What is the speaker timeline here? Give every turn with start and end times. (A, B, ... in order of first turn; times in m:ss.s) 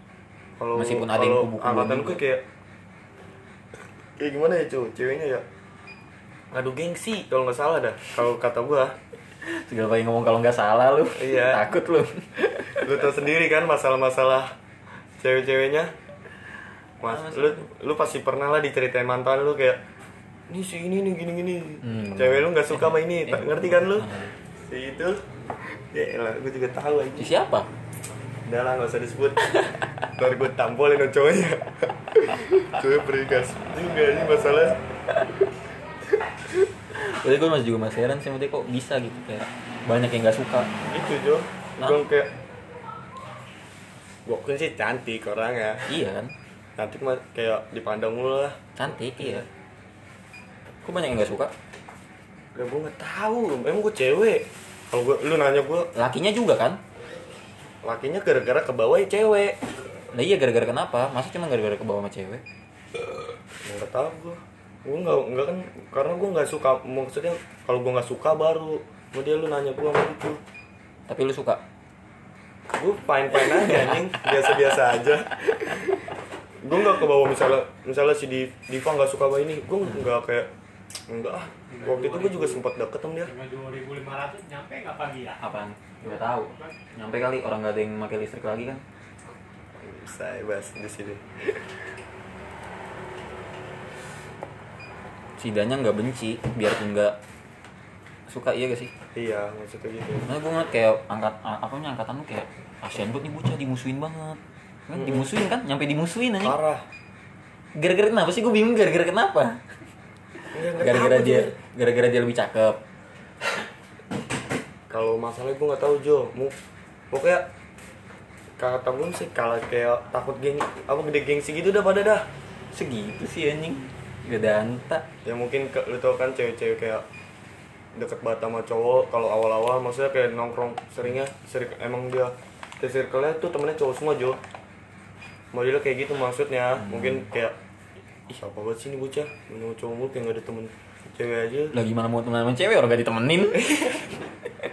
0:00.6-0:02.4 A
0:00.8-0:02.2 B
0:04.2-0:05.4 A
0:06.5-0:09.0 A
0:09.4-0:12.9 B
0:11.2-0:11.7 A
0:12.7-0:14.5 A
0:15.2-0:15.9 A
0:17.0-0:19.8 A
0:17.1-0:17.7 B
0:20.5-0:24.1 A
0:21.8-0:24.3 B
0:24.6-0:27.3 A
0:27.2-0:27.7 B
0:28.4-0:29.5 A
0:30.2-0:34.8 A
0:36.9-0:40.7 B
0:40.8-0:42.3 A
0:44.3-0:45.9 A
0:45.9-0:46.3 B
0:46.8-0:49.5 A
0:48.8-0:49.5 B
0:50.8-0:51.5 B
0:52.6-0:55.9 A
0:56.0-0:56.8 B
0:57.8-0:59.6 A
1:00.1-1:02.4 B
1:03.6-1:10.4 A
1:11.1-1:11.6 B
1:12.7-1:20.5 A
1:13.5-1:13.9 B
1:21.1-1:23.3 A
1:21.7-1:22.6 C
1:23.3-1:25.4 C
1:25.4-1:28.8 B
1:26.1-1:26.7 C
1:29.8-1:31.7 A
1:35.4-1:37.2 B
1:38.3-1:38.9 B
1:39.2-1:40.3 A
1:40.2-1:46.6 B
1:44.9-1:45.3 A
1:46.4-1:46.9 A
1:47.8-1:49.6 B
1:50.4-1:52.8 B
1:50.5-1:51.5 A
1:54.9-1:56.6 A
1:57.1-1:57.5 A
1:58.6-2:02.3 A
2:02.7-2:05.1 B
2:05.2-2:07.0 A
2:07.9-2:14.4 A
2:15.5-2:17.6 A
2:16.8-2:17.3 B
2:18.3-2:21.8 A
2:21.7-2:24.0 B
2:23.5-2:24.1 A